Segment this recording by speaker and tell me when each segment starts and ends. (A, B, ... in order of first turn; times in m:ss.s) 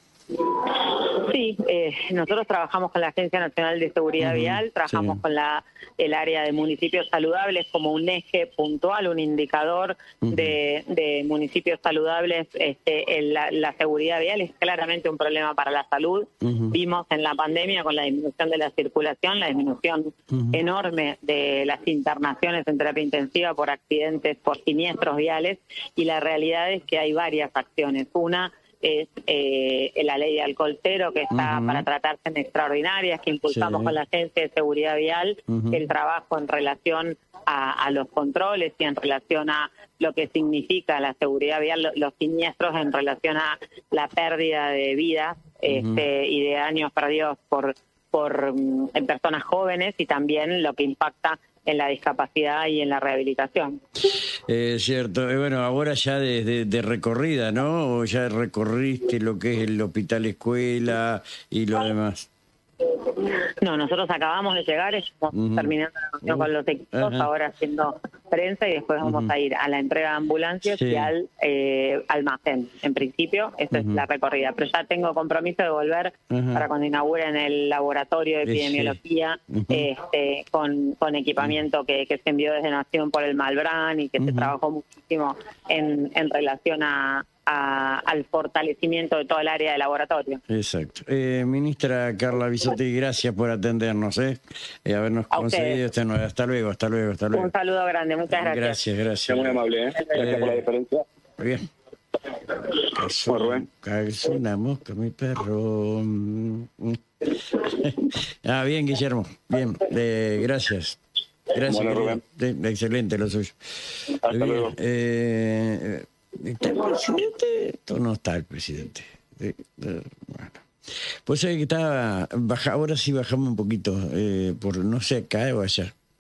0:00.6-0:53.8 A
0:04.2-0:05.2 B
0:10.2-0:10.6 B
0:16.4-0:16.8 B
0:20.3-0:20.6 B
0:31.3-0:31.8 B
0:33.5-0:34.0 B
0:35.5-0:35.9 B
0:45.7-0:46.0 B
0:54.5-1:02.3 B
1:03.0-1:30.4 A
1:05.3-1:07.3 B
1:09.0-1:09.3 B
1:10.6-1:11.1 B
1:13.7-1:14.0 B
1:16.3-1:16.6 B
1:18.4-1:19.0 B
1:19.5-1:19.9 B
1:24.2-1:24.5 B
1:30.5-1:37.5 B
1:35.3-1:35.8 A
1:37.3-1:38.8 A
1:38.3-1:40.6 B
1:39.3-1:41.0 C
1:41.4-1:41.6 B
1:42.7-1:51.0 B
1:43.3-1:43.6 C
1:51.5-2:00.6 B
1:51.6-1:52.2 C
1:54.2-1:54.7 C
2:01.2-2:05.9 B